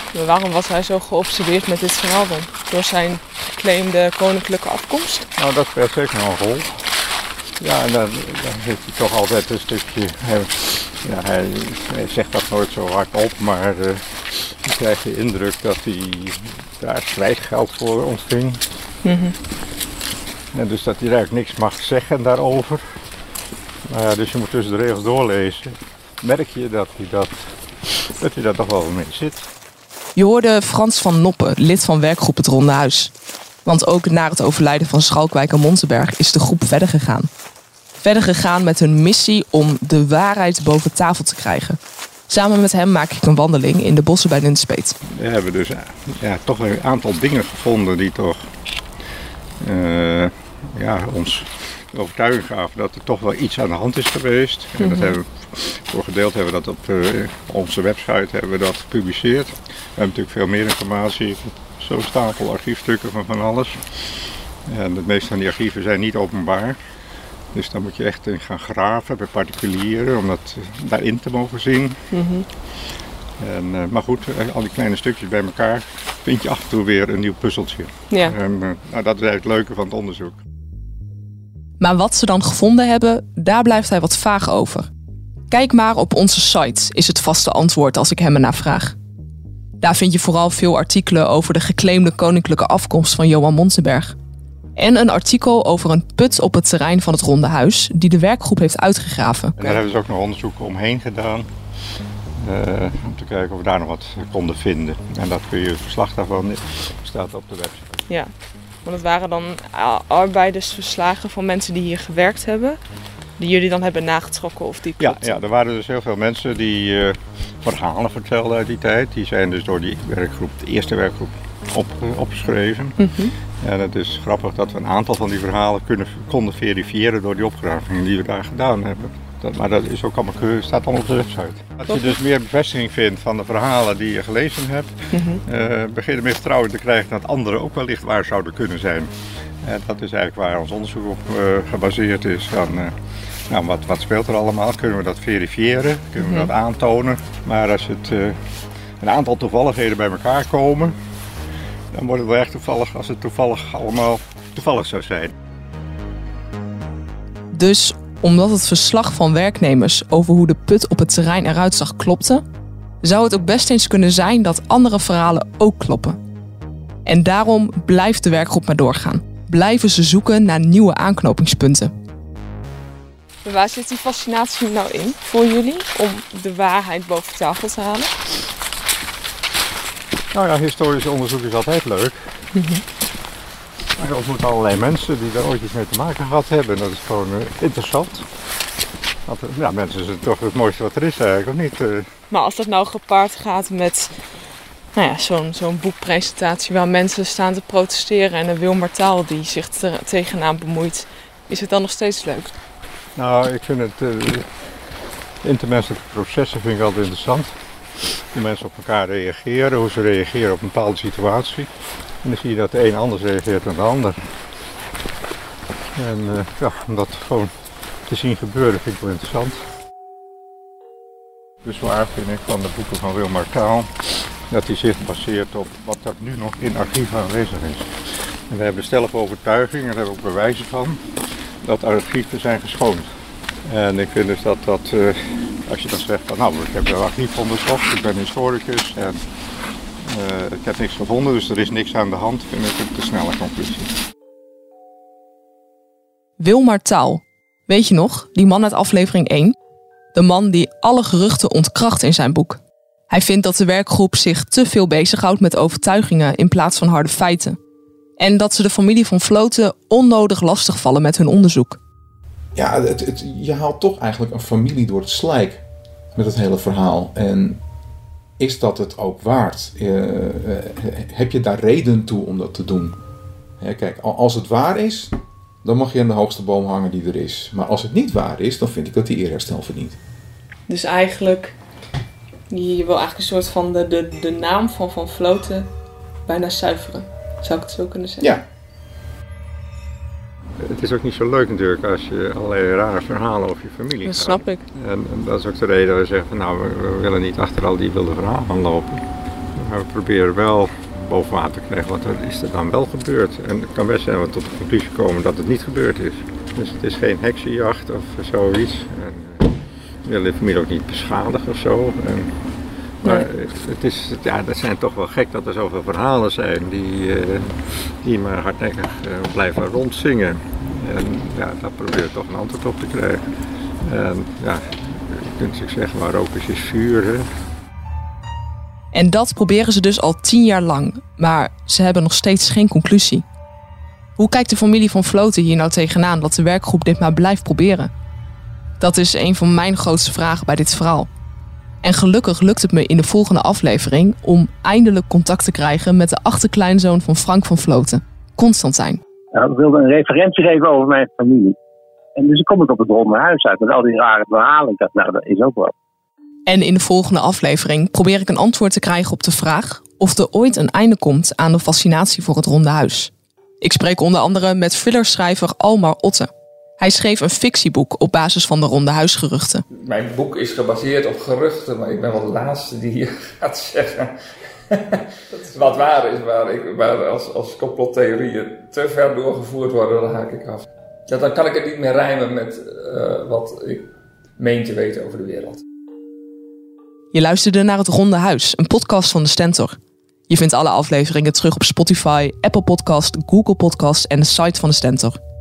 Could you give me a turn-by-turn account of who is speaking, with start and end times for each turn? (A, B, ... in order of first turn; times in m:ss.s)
0:00.1-0:05.3 A
0:05.4-0:06.8 B
0:07.6-0:18.6 B
0:19.0-0:19.4 A
0:20.5-0:22.8 B
0:23.9-0:29.5 B
0:30.2-0:33.1 A
0:33.6-0:37.3 A
0:38.0-0:45.0 A
0:45.1-0:48.4 B
0:49.6-1:03.9 B
0:54.8-0:55.1 A
1:04.7-1:06.8 B
1:07.5-1:12.0 B
1:12.1-1:12.4 A
1:13.4-1:20.4 B
1:18.1-1:18.4 A
1:21.8-1:24.9 A
1:25.5-1:29.0 A
1:29.8-1:34.2 A
1:34.8-1:39.8 A
1:39.6-1:41.5 B
1:42.4-1:47.9 B
1:48.8-1:52.8 A
1:53.4-1:55.4 A
1:55.0-2:03.0 B
2:03.0-2:03.3 A
2:03.6-2:19.1 B
2:15.1-2:15.4 A
2:19.6-2:23.0 B
2:23.5-2:28.4 B
2:26.2-2:26.5 A
2:29.0-2:31.0 B
2:31.9-2:35.4 B
2:37.5-2:42.4 A
2:43.0-2:46.2 A
2:47.0-2:51.9 A
2:53.4-2:58.2 A
3:00.3-3:02.2 B
3:02.6-3:02.8 A
3:04.0-3:08.3 B
3:09.3-3:12.1 B
3:12.3-3:14.1 A
3:15.0-3:22.5 A
3:23.2-3:24.5 B
3:25.4-3:31.7 B
3:32.2-3:34.2 B
3:36.0-3:37.5 B
3:38.1-3:39.6 B
3:41.6-3:47.9 B
3:48.5-3:51.0 B
3:51.6-3:53.1 B
3:53.7-3:59.2 B
4:00.0-4:03.9 B
4:06.4-4:09.6 A
4:10.1-4:17.6 A
4:18.2-4:21.8 A
4:22.6-4:25.6 C
4:26.2-4:27.6 C
4:28.4-4:33.0 C
4:33.6-4:40.0 C
4:40.7-4:41.6 A
4:42.5-4:45.7 A
4:46.3-4:48.3 A
4:50.6-4:59.0 B
4:54.0-4:54.6 A
4:59.6-5:12.4 B
5:13.0-5:23.2 B
5:23.8-5:27.3 B
5:28.9-5:33.2 A
5:34.2-5:37.9 A
5:38.8-5:41.1 A
5:41.8-5:49.0 A
5:49.3-5:51.6 D
5:52.2-5:55.7 D
5:56.5-6:09.6 A
6:10.0-6:13.8 E
6:15.4-6:20.5 E
6:21.2-6:23.8 E
6:24.4-6:25.5 E
6:27.1-6:29.8 A
6:30.3-6:35.2 A